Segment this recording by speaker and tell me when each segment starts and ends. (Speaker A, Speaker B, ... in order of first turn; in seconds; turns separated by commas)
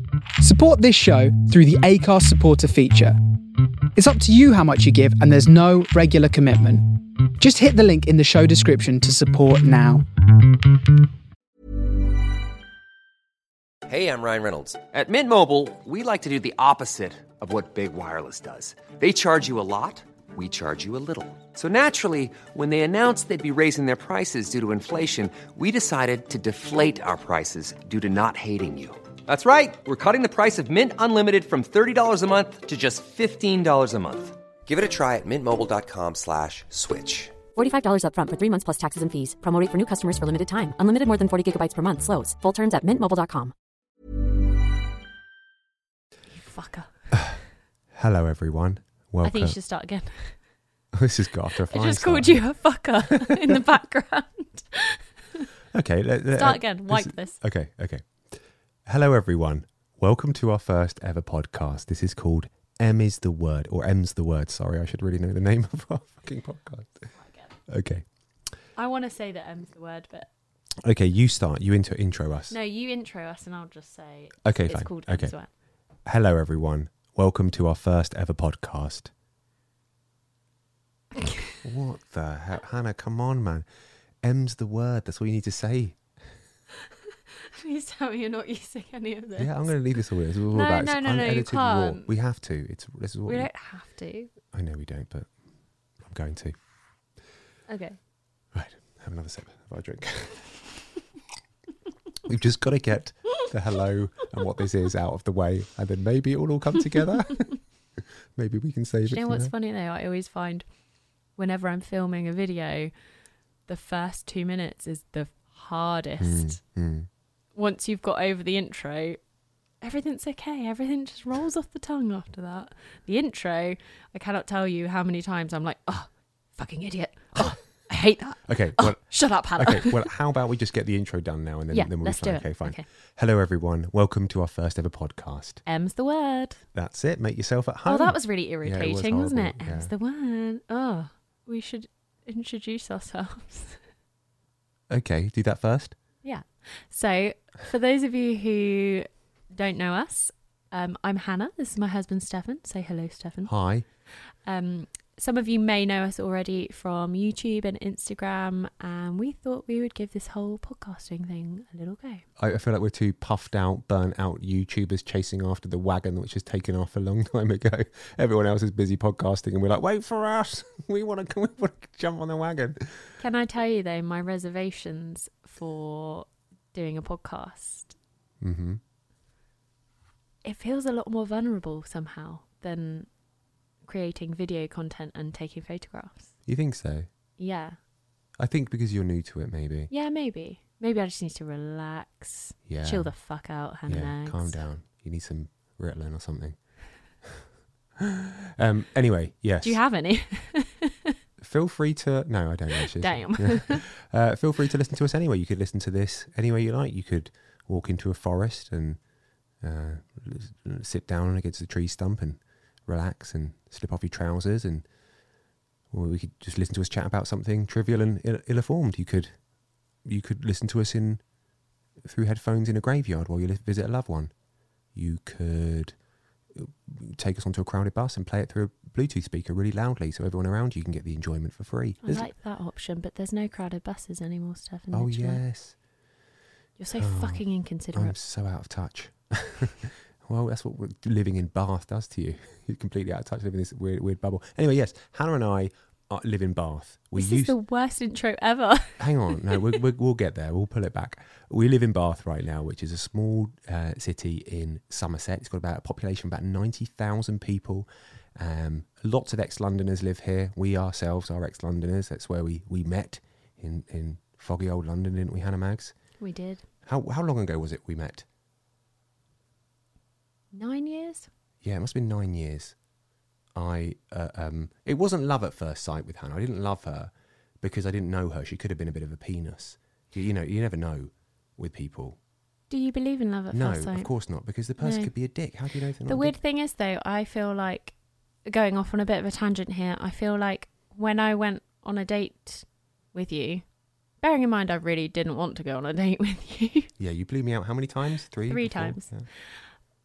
Speaker A: 0.4-3.2, Speaker A: 4.0-10.1, Speaker B: 13.9-37.4, Speaker C: 37.5-43.5, Speaker D: 46.3-46.9, Speaker E: 47.9-49.6, Speaker D: 49.2-50.4, Speaker E: 50.9-52.5, Speaker D: 51.6-55.5, Speaker E: 53.0-53.6, Speaker E: 55.7-67.1, Speaker D: 56.3-57.4, Speaker D: 67.2-67.5, Speaker E: 67.7-68.0, Speaker D: 68.8-70.3, Speaker E: 70.8-72.6, Speaker D: 72.5-75.5, Speaker E: 74.5-75.3, Speaker E: 76.0-79.1, Speaker D: 81.1-81.6, Speaker E: 81.6-83.7, Speaker E: 84.2-86.1, Speaker D: 87.5-89.8, Speaker E: 89.4-93.5, Speaker D: 90.5-92.1, Speaker D: 93.3-94.3, Speaker E: 94.5-95.3, Speaker E: 96.0-96.5, Speaker D: 97.7-98.0, Speaker E: 98.5-100.7, Speaker E: 102.2-109.5, Speaker D: 109.0-110.7, Speaker D: 111.4-112.9, Speaker D: 113.7-116.6, Speaker E: 116.2-117.1, Speaker D: 117.5-119.2, Speaker D: 119.8-130.1, Speaker E: 128.5-135.6, Speaker D: 131.7-132.8, Speaker D: 135.7-136.6, Speaker E: 136.7-139.9, Speaker D: 137.8-143.8, Speaker E: 144.9-146.0, Speaker D: 146.2-153.5, Speaker E: 153.5-153.8, Speaker D: 154.4-162.2, Speaker E: 162.4-173.0, Speaker D: 173.2-177.9, Speaker E: 178.4-178.8, Speaker D: 180.4-183.1, Speaker D: 183.8-186.3, Speaker E: 186.5-187.1, Speaker D: 187.4-187.8, Speaker E: 188.4-189.9, Speaker D: 189.9-194.6, Speaker E: 192.7-193.1, Speaker E: 193.9-196.6, Speaker E: 198.0-199.8, Speaker D: 199.6-201.1, Speaker E: 201.4-209.0, Speaker D: 202.8-203.8, Speaker E: 209.6-214.9, Speaker E: 215.9-219.4, Speaker E: 220.0-221.2, Speaker E: 222.0-224.3, Speaker E: 224.9-226.0, Speaker E: 226.5-232.3, Speaker D: 232.0-235.4, Speaker E: 234.9-235.8, Speaker D: 236.8-238.2, Speaker E: 236.9-247.6, Speaker D: 247.2-249.8, Speaker E: 249.0-265.9, Speaker D: 266.2-266.6, Speaker E: 266.9-268.3, Speaker D: 270.5-271.3, Speaker E: 271.6-272.8, Speaker E: 273.6-282.2, Speaker D: 282.7-284.1, Speaker E: 283.5-286.4, Speaker D: 284.8-285.1, Speaker D: 286.1-287.9, Speaker D: 288.5-293.6, Speaker D: 294.2-296.9, Speaker E: 297.0-299.3, Speaker D: 298.4-299.1